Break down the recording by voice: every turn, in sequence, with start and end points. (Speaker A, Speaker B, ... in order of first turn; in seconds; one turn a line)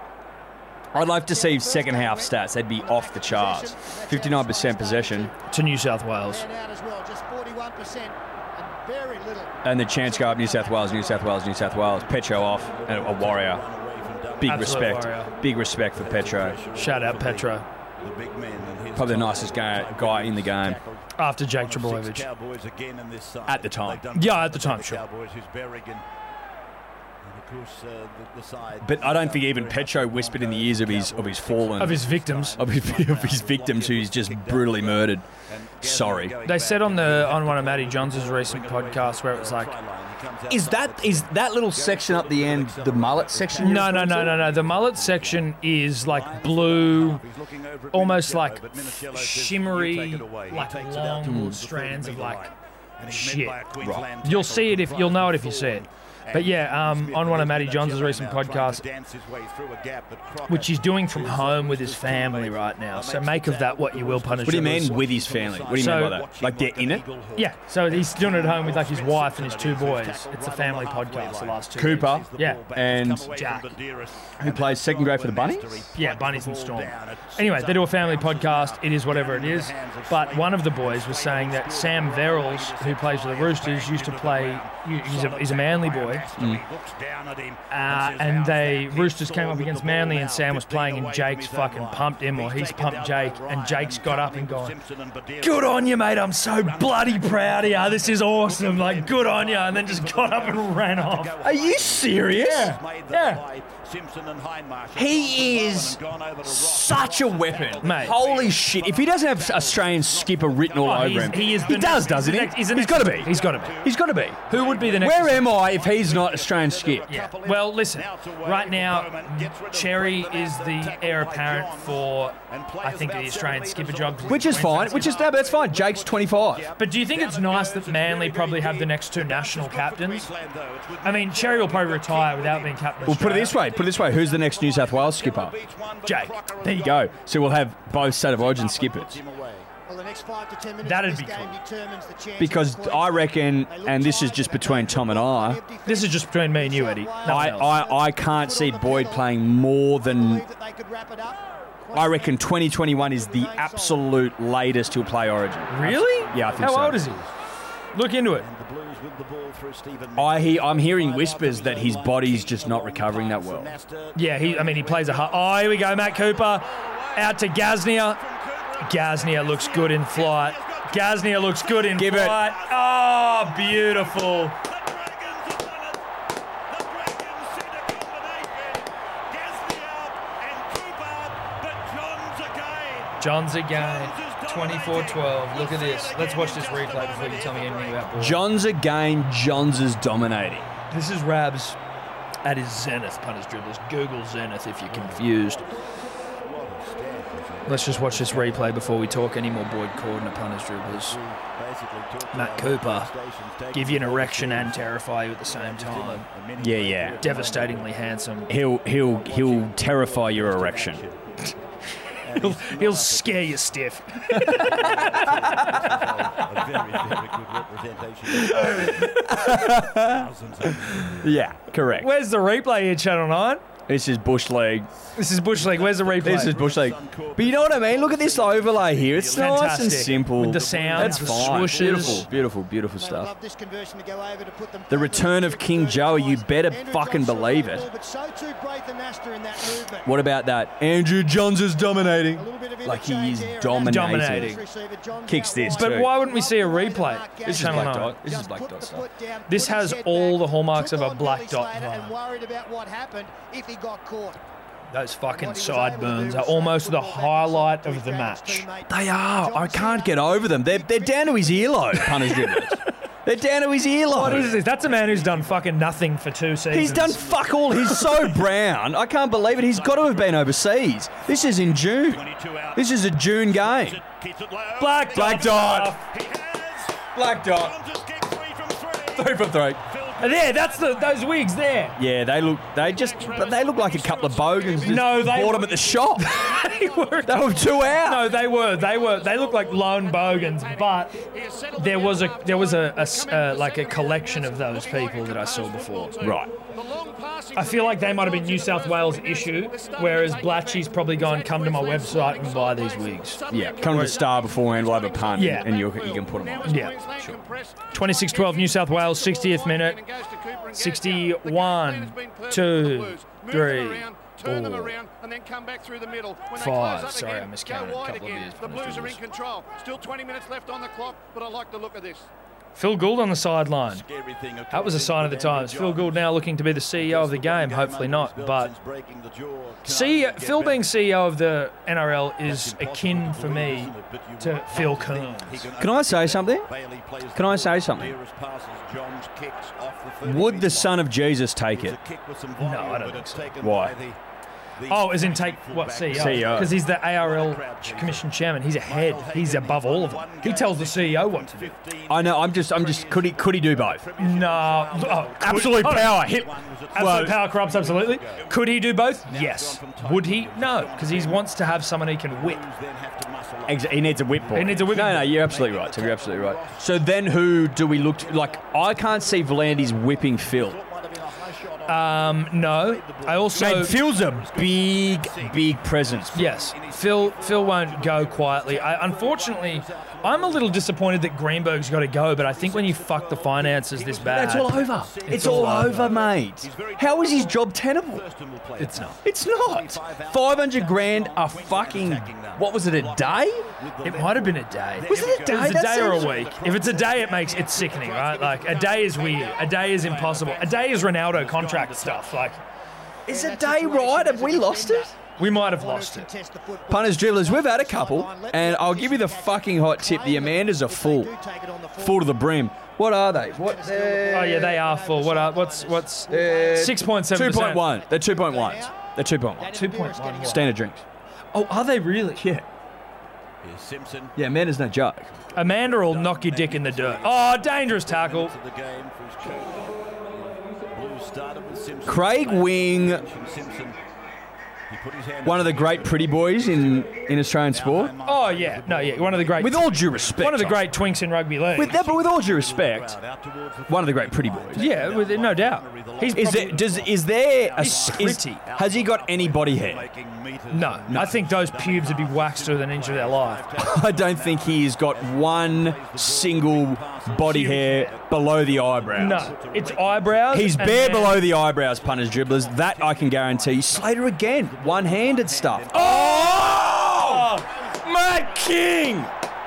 Speaker A: 0.9-5.3
Speaker B: 1.0-5.3
Speaker C: 5.5-6.4
Speaker B: 6.3-11.5
Speaker A: 9.6-13.6
Speaker D: 11.5-15.1
Speaker A: 14.4-16.6
Speaker C: 14.4-15.3
Speaker D: 15.9-26.1
Speaker C: 16.7-17.6
Speaker A: 18.9-20.8
Speaker C: 21.2-22.2
Speaker A: 23.4-24.0
Speaker C: 24.1-25.0
Speaker D: 27.2-139.7
Speaker A: 28.8-35.3
Speaker C: 31.8-32.6
Speaker A: 35.8-36.4
Speaker C: 36.4-39.7
Speaker A: 40.5-44.4
Speaker C: 43.6-47.2
Speaker C: 47.9-52.4
Speaker A: 51.2-51.6
Speaker C: 53.1-53.6
Speaker A: 53.8-54.1
Speaker C: 54.2-58.8
Speaker C: 60.5-65.0
Speaker A: 64.4-67.0
Speaker C: 65.8-66.2
Speaker C: 67.3-72.6
Speaker A: 71.8-73.3
Speaker C: 73.3-73.7
Speaker A: 74.4-75.9
Speaker C: 75.9-86.2
Speaker A: 86.3-86.6
Speaker C: 87.7-94.8
Speaker C: 95.4-101.3
Speaker A: 101.4-102.8
Speaker C: 103.1-103.4
Speaker A: 104.9-117.1
Speaker C: 107.8-108.2
Speaker C: 110.8-113.9
Speaker C: 114.5-115.5
Speaker C: 117.1-125.2
Speaker A: 124.3-126.7
Speaker C: 126.8-130.3
Speaker C: 131.0-133.6
Speaker A: 133.1-135.5
Speaker C: 136.0-136.9
Speaker A: 136.6-139.2
Speaker B: 139.9-149.4
Speaker C: 140.8-141.6
Speaker A: 142.4-145.6
Speaker C: 145.8-147.7
Speaker A: 147.2-150.4
Speaker B: 150.0-154.1
Speaker A: 151.9-157.1
Speaker D: 155.0-157.3
Speaker C: 155.7-157.2
Speaker C: 157.9-158.5
Speaker D: 158.3-176.0
Speaker A: 160.2-163.7
Speaker C: 164.1-168.2
Speaker C: 168.8-174.6
Speaker A: 171.9-172.5
Speaker D: 176.7-188.1
Speaker C: 183.2-188.4
Speaker A: 188.2-190.7
Speaker C: 190.9-191.8
Speaker C: 192.4-195.6
Speaker D: 194.9-198.7
Speaker C: 197.7-201.2
Speaker D: 200.8-207.9
Speaker C: 202.3-203.1
Speaker C: 203.7-206.2
Speaker A: 206.6-207.3
Speaker C: 207.2-208.5
Speaker A: 208.5-211.0
Speaker D: 209.0-211.3
Speaker D: 212.2-213.7
Speaker C: 212.4-215.4
Speaker A: 214.3-214.7
Speaker D: 214.4-221.5
Speaker A: 215.3-217.2
Speaker A: 218.3-222.1
Speaker C: 222.0-223.6
Speaker A: 223.9-224.9
Speaker C: 225.1-226.6
Speaker D: 225.5-232.5
Speaker A: 226.2-233.3
Speaker C: 229.3-232.3
Speaker B: 233.0-240.1
Speaker A: 234.9-237.9
Speaker A: 240.0-244.6
Speaker B: 242.2-254.4
Speaker C: 243.8-244.6
Speaker A: 245.2-246.2
Speaker C: 245.7-248.2
Speaker A: 247.4-249.1
Speaker C: 249.5-252.1
Speaker C: 254.9-258.6
Speaker B: 255.3-262.6
Speaker A: 258.9-264.6
Speaker D: 264.0-266.1
Speaker C: 264.1-267.3
Speaker D: 266.7-268.4
Speaker A: 266.7-272.2
Speaker D: 269.3-270.6
Speaker D: 271.2-281.4
Speaker A: 272.7-274.0
Speaker C: 274.8-276.1
Speaker A: 275.1-276.0
Speaker A: 277.1-277.8
Speaker A: 279.1-279.8
Speaker C: 280.2-282.0
Speaker A: 282.0-286.3
Speaker E: 282.8-322.3
Speaker C: 284.8-291.2
Speaker A: 287.2-288.3
Speaker C: 291.7-296.4
Speaker A: 296.2-296.5
Speaker C: 297.5-304.2
Speaker A: 303.5-307.5
Speaker C: 305.3-305.7
Speaker C: 306.6-307.0
Speaker C: 307.9-310.0
Speaker C: 310.7-315.0
Speaker C: 316.5-319.2
Speaker C: 322.7-324.0
Speaker D: 323.9-326.4
Speaker C: 324.7-328.7
Speaker D: 326.9-330.9
Speaker C: 329.9-335.7
Speaker D: 332.4-341.1
Speaker A: 335.8-336.7
Speaker A: 337.3-338.1
Speaker A: 340.2-342.0
Speaker D: 341.7-344.2
Speaker C: 342.6-343.5
Speaker A: 343.6-344.0
Speaker D: 344.8-361.5
Speaker C: 344.9-351.8
Speaker A: 346.1-346.8
Speaker A: 352.1-354.0
Speaker C: 354.2-356.3
Speaker A: 355.4-357.4
Speaker C: 356.9-362.6
Speaker D: 362.3-367.1
Speaker A: 363.6-370.8
Speaker C: 364.5-365.4
Speaker D: 367.9-381.1
Speaker C: 371.9-374.0
Speaker A: 373.5-376.4
Speaker C: 376.3-386.2
Speaker D: 382.4-402.5
Speaker A: 384.2-388.2
Speaker C: 388.8-389.2
Speaker A: 389.2-393.7
Speaker C: 394.0-402.6
Speaker A: 395.1-396.5
Speaker A: 403.2-405.1
Speaker B: 403.3-412.4
Speaker C: 405.4-406.3
Speaker A: 406.9-411.3
Speaker A: 412.0-414.8
Speaker B: 413.4-417.2
Speaker C: 414.3-417.9
Speaker A: 416.3-419.8
Speaker B: 417.8-419.0
Speaker B: 419.6-420.7
Speaker C: 419.7-420.7
Speaker A: 420.4-421.0
Speaker C: 421.5-422.4
Speaker A: 422.4-422.7
Speaker D: 423.6-424.4
Speaker A: 424.4-425.3
Speaker C: 425.5-428.5
Speaker D: 425.5-434.0
Speaker A: 432.0-433.2
Speaker D: 434.9-441.1
Speaker A: 435.4-438.1
Speaker C: 438.2-442.0
Speaker A: 439.6-440.9
Speaker A: 441.7-443.2
Speaker D: 441.8-469.2
Speaker A: 443.9-444.9
Speaker C: 444.7-446.9
Speaker A: 446.3-450.1
Speaker C: 447.8-448.6
Speaker C: 450.7-453.6
Speaker A: 451.1-451.3
Speaker A: 453.8-459.5
Speaker C: 457.4-458.1
Speaker C: 459.1-461.4
Speaker A: 460.5-469.3
Speaker C: 465.9-467.7